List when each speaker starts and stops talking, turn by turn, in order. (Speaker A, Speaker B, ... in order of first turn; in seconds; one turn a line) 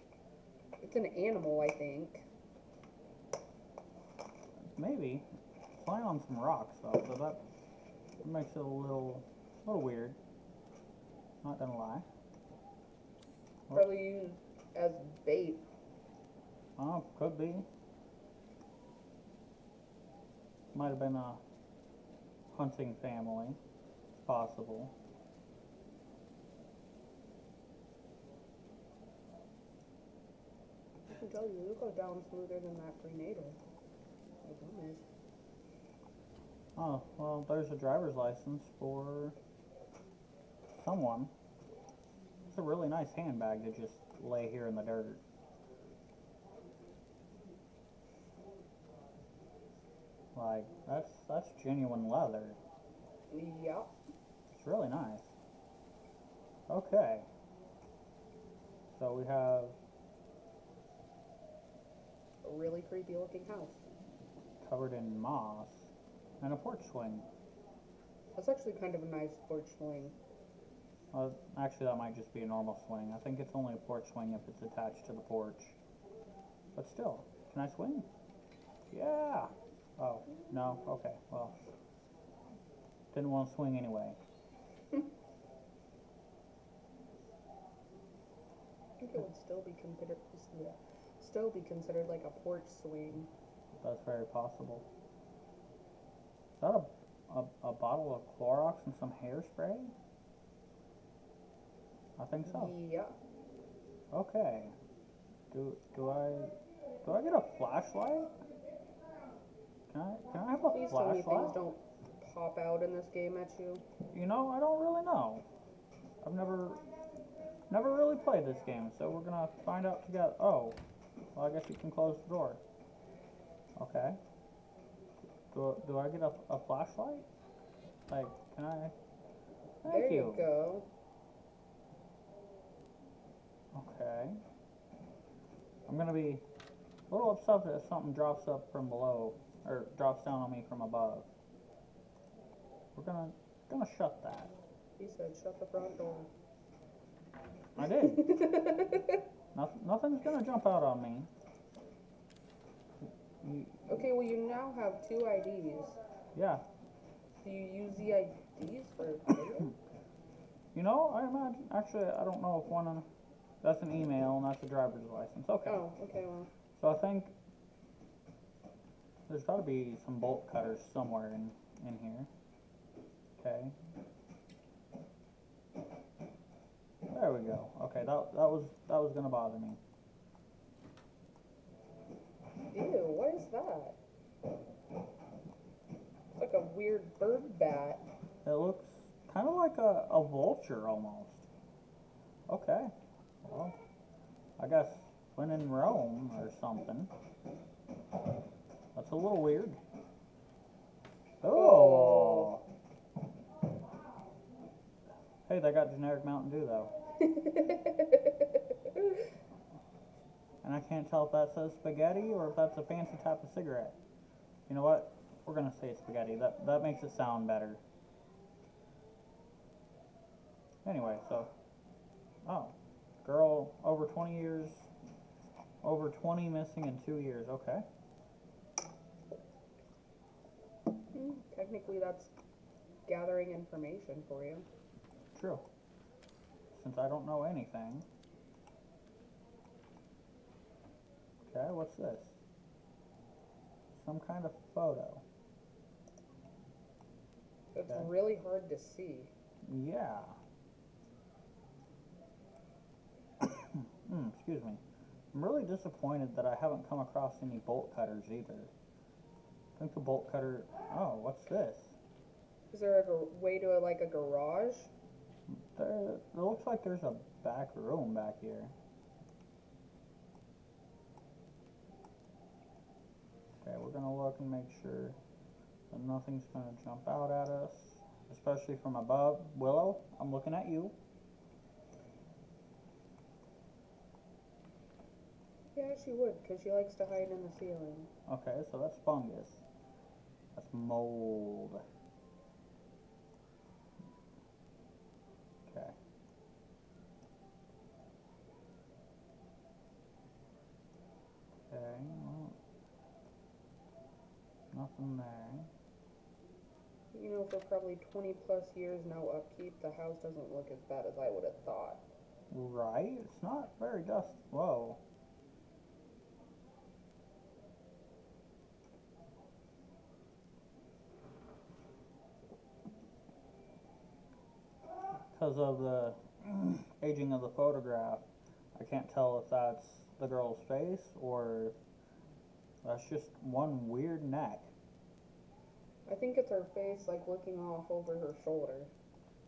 Speaker A: 0.8-2.2
Speaker B: 4.7-7.4
Speaker B: 8.2-10.2
Speaker B: 11.4-12.1
Speaker A: 13.7-15.7
Speaker B: 16.8-17.7
Speaker B: 20.7-21.4
Speaker B: 22.5-23.6
Speaker B: 24.2-24.9
Speaker A: 31.1-33.6
Speaker A: 34.4-35.0
Speaker B: 36.8-39.4
Speaker B: 40.7-41.3
Speaker B: 42.5-45.2
Speaker B: 50.3-52.6
Speaker A: 53.3-53.9
Speaker B: 54.5-55.3
Speaker B: 56.7-57.3
Speaker B: 58.9-59.8
Speaker A: 62.4-63.8
Speaker B: 64.6-65.9
Speaker B: 66.4-67.3
Speaker A: 68.3-70.2
Speaker B: 71.1-75.8
Speaker B: 76.8-78.1
Speaker B: 78.9-81.5
Speaker B: 83.1-84.2
Speaker A: 89.0-93.3
Speaker B: 93.8-94.9
Speaker B: 96.6-99.9
Speaker B: 102.2-102.7
Speaker A: 102.5-103.2
Speaker B: 104.1-104.8
Speaker B: 105.5-108.4
Speaker B: 109.9-111.6
Speaker A: 110.7-113.8
Speaker B: 114.1-115.5
Speaker B: 116.2-116.8
Speaker B: 117.7-120.8
Speaker B: 121.3-122.6
Speaker B: 123.8-124.2
Speaker B: 125.5-127.3
Speaker B: 128.1-128.9
Speaker B: 129.8-130.5
Speaker A: 129.8-130.9
Speaker B: 133.7-134.4
Speaker B: 135.9-136.4
Speaker B: 137.1-141.3
Speaker B: 142.9-144.5
Speaker A: 145.0-146.3
Speaker B: 147.8-148.3
Speaker A: 148.0-149.1
Speaker B: 149.5-151.3
Speaker B: 153.4-153.8
Speaker A: 153.9-156.0
Speaker B: 156.3-156.7
Speaker A: 157.4-159.7
Speaker B: 160.7-163.1
Speaker B: 163.6-165.8
Speaker A: 165.7-166.5
Speaker B: 166.8-167.3
Speaker B: 169.3-172.3
Speaker B: 173.4-173.7
Speaker B: 177.1-179.8
Speaker A: 182.7-184.0
Speaker A: 186.3-188.1
Speaker B: 188.4-191.4
Speaker B: 192.5-192.9
Speaker B: 193.4-193.8
Speaker B: 194.6-197.1
Speaker B: 198.9-199.8
Speaker B: 201.4-202.6
Speaker A: 201.5-202.5
Speaker B: 205.5-206.9
Speaker A: 207.2-208.4
Speaker B: 210.6-214.0
Speaker B: 214.7-217.8
Speaker B: 220.8-221.5
Speaker B: 222.4-224.9
Speaker B: 225.8-227.8
Speaker A: 231.1-232.3
Speaker A: 233.1-234.7
Speaker B: 235.3-235.7
Speaker B: 236.7-238.1
Speaker B: 241.4-242.4
Speaker B: 243.9-245.2
Speaker A: 247.7-249.3
Speaker B: 249.7-250.4
Speaker B: 253.4-254.8
Speaker B: 255.3-258.7
Speaker B: 259.8-261.9
Speaker A: 262.7-264.9
Speaker B: 265.5-268.7
Speaker B: 273.6-275.2
Speaker B: 275.9-280.9
Speaker A: 285.8-288.1
Speaker B: 288.3-289.6
Speaker B: 290.5-291.8
Speaker B: 295.7-296.0
Speaker B: 301.7-302.6
Speaker B: 304.7-305.7
Speaker A: 307.1-312.0
Speaker B: 312.5-315.0
Speaker B: 325.3-331.8
Speaker B: 332.8-334.7
Speaker A: 336.1-338.9